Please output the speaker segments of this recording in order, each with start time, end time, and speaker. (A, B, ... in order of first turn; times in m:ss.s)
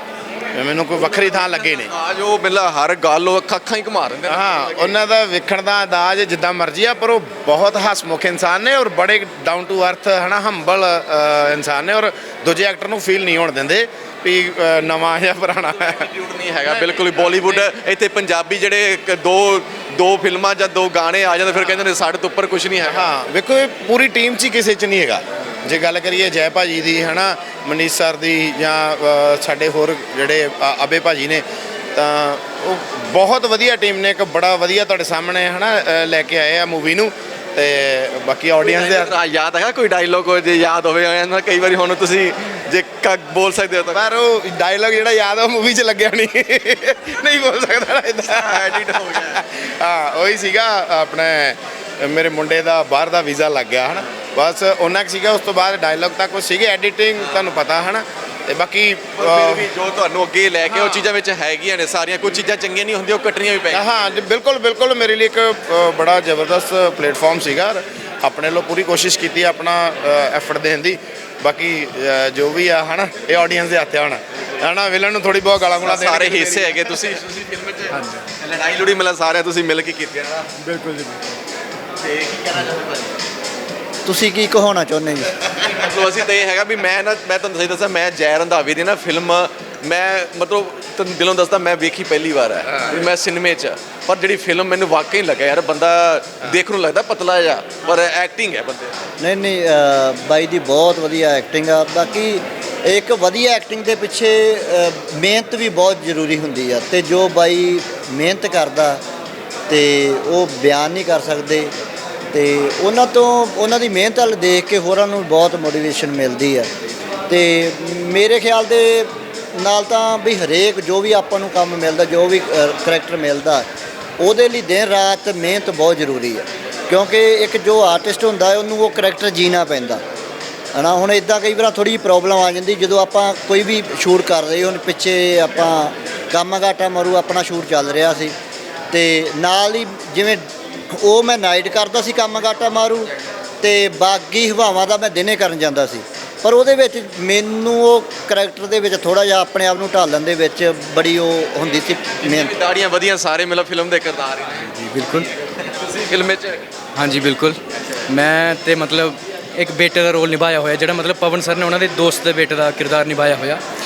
0:00.5-0:01.9 A
0:01.0-0:05.0 B
0:04.2-0:16.1 A
0:15.7-0:23.1 B
0:16.7-0:17.7 A
0:22.8-0:31.4 A
0:31.9-0:39.1 A
0:38.6-0:44.0 B
0:43.9-0:59.6 A
0:48.3-0:49.4 B
0:57.2-0:57.5 B
0:59.2-1:03.8 B
1:00.7-1:01.0 A
1:03.7-1:17.0 A
1:15.8-1:20.5 B
1:22.0-1:23.1 B
1:24.0-1:25.3 C
1:25.5-1:39.0 B
1:39.2-1:49.0 C
1:49.7-1:51.7 C
1:52.3-1:56.7 C
1:57.3-2:03.7 C
2:04.2-2:10.0 C
2:10.7-2:18.3 C
2:18.9-2:20.4 C
2:21.0-2:23.1 C
2:23.6-2:32.5 C
2:32.2-2:36.7 B
2:34.7-2:35.3 D
2:37.0-2:43.6 D